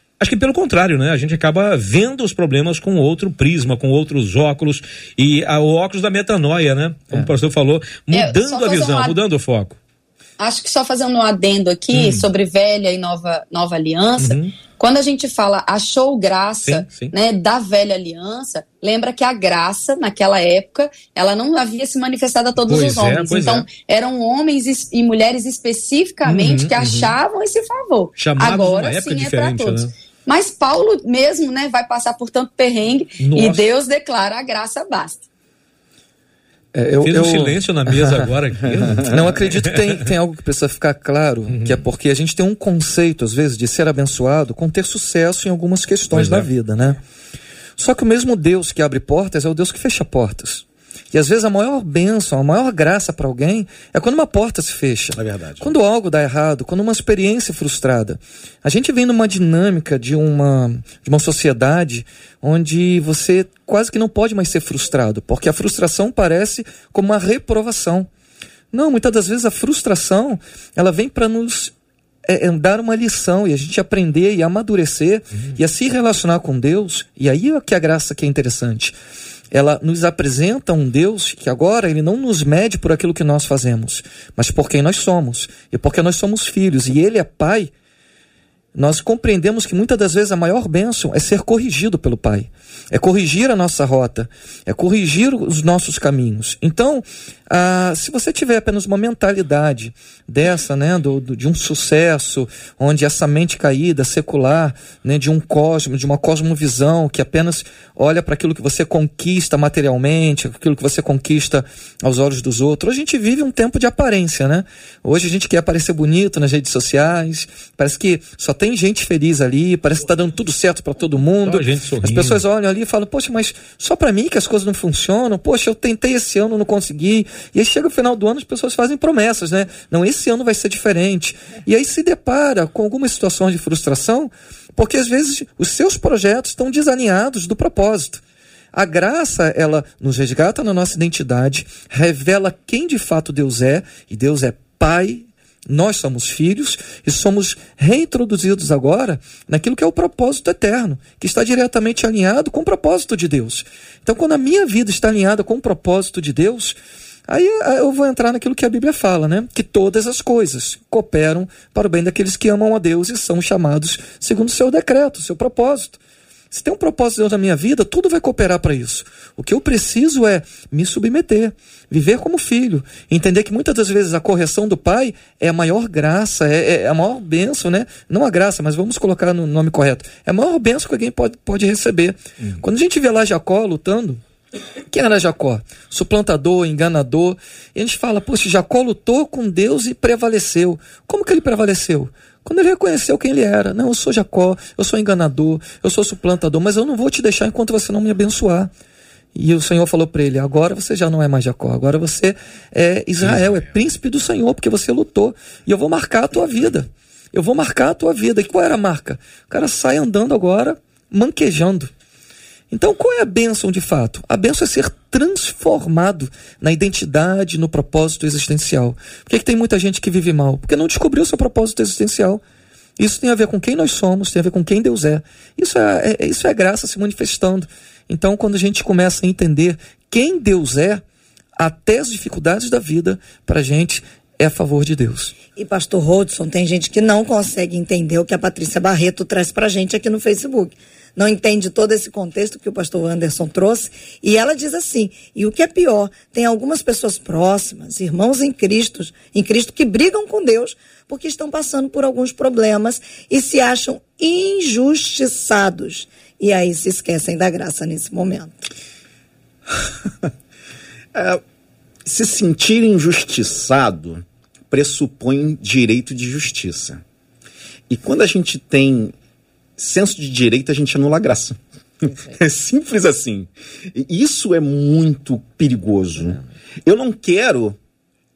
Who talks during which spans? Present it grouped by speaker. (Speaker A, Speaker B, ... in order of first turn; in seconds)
Speaker A: 0.2-9.8, 11.9-12.3, 14.2-14.5, 16.7-17.1, 22.7-23.7, 26.2-27.1, 28.2-29.9, 33.2-33.7, 37.0-39.8, 41.5-41.8, 121.4-122.4, 203.2-203.6
Speaker B: 8.1-9.2, 10.4-35.2
Speaker C: 36.7-38.3, 39.0-47.0, 47.8-68.1, 68.7-71.7, 72.3-79.0, 79.5-87.7, 88.8-138.2, 138.7-166.0, 166.5-184.2, 184.9-198.7, 199.3-211.9, 212.7-222.4, 223.0-231.0, 231.6-235.3
Speaker D: 38.8-39.1, 55.2-55.7, 261.1-261.4, 262.1-267.0, 267.9-269.1, 269.8-277.8
Speaker E: 235.5-258.6